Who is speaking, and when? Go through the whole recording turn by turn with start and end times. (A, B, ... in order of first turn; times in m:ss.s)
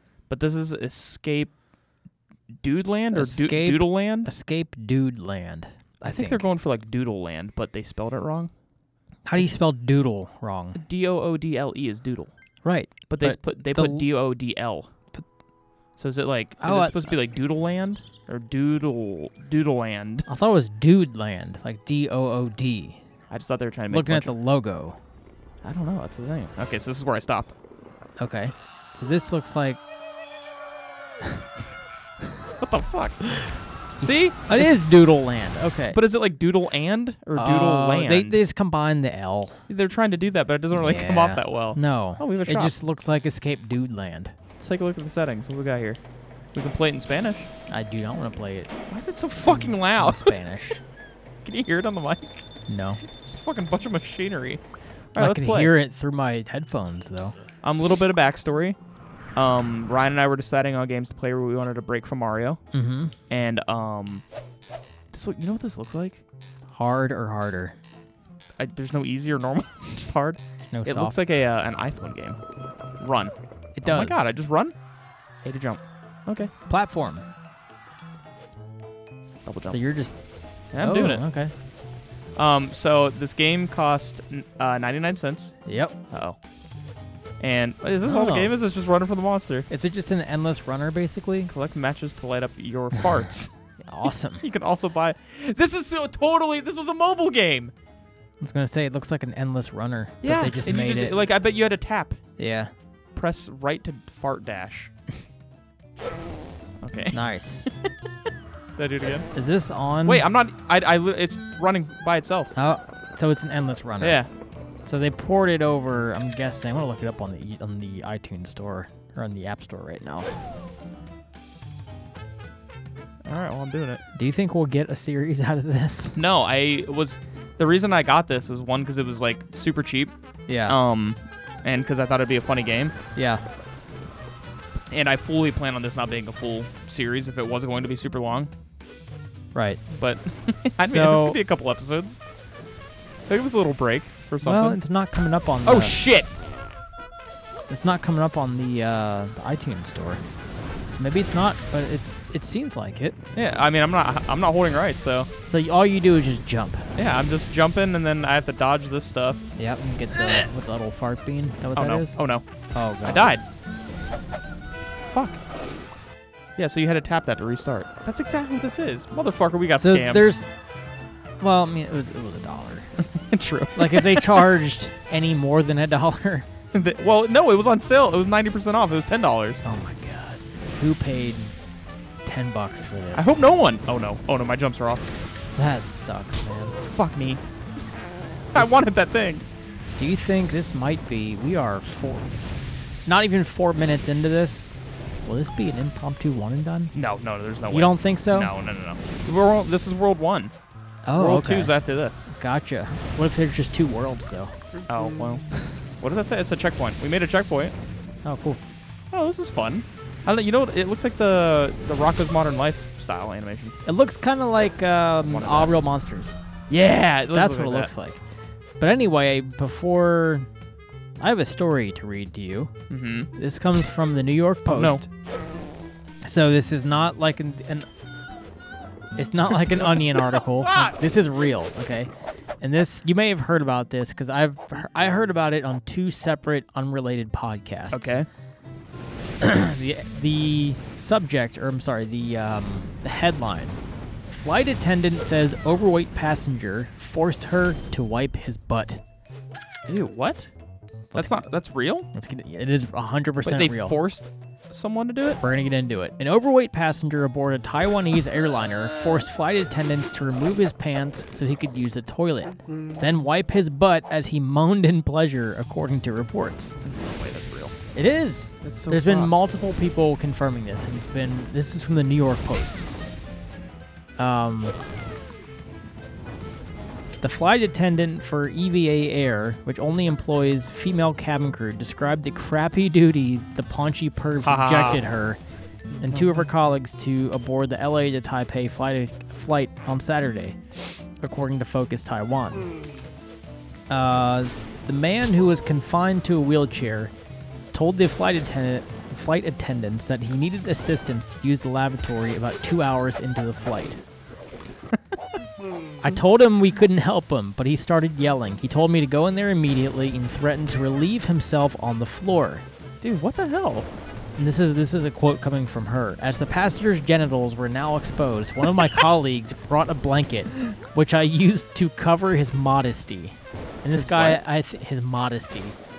0:00.3-0:01.6 A
0:02.6-0:04.3 A
0:03.1-0:06.4 B
0:06.0-0:08.5 A
0:09.2-0:10.8 B
0:10.7-0:12.3 A
0:12.6-0:14.1 B
0:13.1-0:14.9 A
0:16.0-0:20.3 A
0:16.6-0:17.2 B
0:20.3-0:23.0 B
0:23.3-0:24.3 A
0:23.9-0:25.0 B
0:25.6-0:27.5 A
0:28.2-0:29.8 B
0:32.6-0:34.8 A
0:34.0-0:36.0 B
0:35.9-0:38.4 A
0:37.3-0:39.6 B
0:39.7-0:42.8 A
0:40.7-0:44.3 B
0:44.6-0:46.0 A
0:46.5-0:47.5 A
0:47.7-0:48.7 B
0:48.9-0:50.4 A
0:49.4-0:50.8 B
0:51.4-0:52.4 A
0:52.7-0:53.0 B
0:53.0-0:54.6 A
0:55.1-0:55.7 A
0:55.2-0:57.3 B
0:57.6-0:58.8 A
0:59.3-1:02.6 A
1:02.7-1:03.1 B
1:03.3-1:04.3 A
1:05.1-1:06.2 A
1:06.7-1:07.7 B
1:08.6-1:12.4 A
1:10.7-1:11.2 B
1:13.0-1:14.8 A
1:13.7-1:14.3 B
1:15.4-1:16.5 A
1:16.7-1:17.2 B
1:19.4-1:19.8 A
1:19.7-1:21.5 B
1:20.7-1:21.2 A
1:22.3-1:26.4 A
1:25.6-1:26.0 B
1:27.4-1:29.7 A
1:28.0-1:28.5 B
1:29.7-1:31.5 B
1:31.4-1:37.7 A
1:33.8-1:34.4 B
1:38.4-1:41.2 B
1:40.2-1:42.2 A
1:42.4-1:42.7 B
1:43.1-1:44.9 A
1:46.8-1:47.9 A
1:47.1-1:47.7 B
1:48.8-1:49.3 A
1:49.3-1:50.2 B
1:50.0-1:52.5 A
1:52.5-1:54.2 B
1:54.0-1:54.3 A
1:54.8-2:00.3 B
2:03.2-2:04.0 A
2:04.1-2:06.2 B
2:06.1-2:10.1 A
2:10.5-2:10.8 B
2:10.6-2:12.9 A
2:13.2-2:13.4 B
2:14.9-2:18.5 A
2:19.5-2:19.8 B
2:19.9-2:22.2 A
2:20.8-2:21.4 B
2:23.3-2:24.8 A
2:24.4-2:26.0 B
2:25.6-2:26.3 A
2:27.7-2:30.2 B
2:30.9-2:33.2 B
2:33.3-2:35.3 A
2:35.4-2:36.9 B
2:36.9-2:39.4 A
2:39.6-2:43.4 B
2:40.2-2:40.4 A
2:41.7-2:42.4 A
2:43.0-2:43.4 A
2:45.1-2:45.4 A
2:46.6-2:50.2 A
2:49.7-2:50.4 B
2:51.4-2:53.0 B
2:53.1-2:54.5 A
2:53.7-2:56.5 B
2:56.7-2:59.6 A
2:59.6-3:01.5 B
3:02.2-3:03.4 B
3:03.1-3:05.0 A
3:05.6-3:06.8 B
3:06.8-3:07.4 A
3:08.5-3:09.4 A
3:08.5-3:08.8 B
3:10.0-3:12.4 B
3:13.0-3:14.7 B
3:15.2-3:16.9 B
3:16.9-3:20.5 A
3:17.7-3:18.5 B
3:21.0-3:24.5 B
3:21.2-3:22.3 A
3:24.9-3:27.7 A
3:28.2-3:28.6 B
3:29.1-3:33.8 A
3:33.8-3:36.4 B
3:35.2-3:35.8 A
3:36.7-3:37.9 A
3:37.3-3:38.2 B
3:38.8-3:40.5 B
3:41.2-3:42.7 B
3:42.9-3:43.3 A
3:43.3-3:45.1 B
3:44.7-3:45.0 A
3:46.2-3:47.9 B
3:49.2-3:58.2 B
3:50.1-3:51.0 A
3:57.9-3:58.3 A
3:59.4-4:09.0 B
4:09.9-4:10.5 A
4:11.1-4:11.5 B
4:11.1-4:12.1 A
4:12.1-4:14.0 B
4:13.4-4:15.4 A
4:15.4-4:26.7 B
4:26.8-4:27.7 A
4:27.9-4:32.8 B
4:28.6-4:29.4 A
4:34.2-4:34.8 B
4:37.2-4:45.4 B
4:44.4-4:45.0 A
4:45.9-4:46.5 A
4:46.0-4:50.6 B
4:51.2-4:52.7 B
4:53.9-4:57.1 B
4:57.7-5:04.0 B
5:06.0-5:12.6 B
5:13.0-5:13.9 A
5:14.4-5:25.8 B
5:23.9-5:24.4 A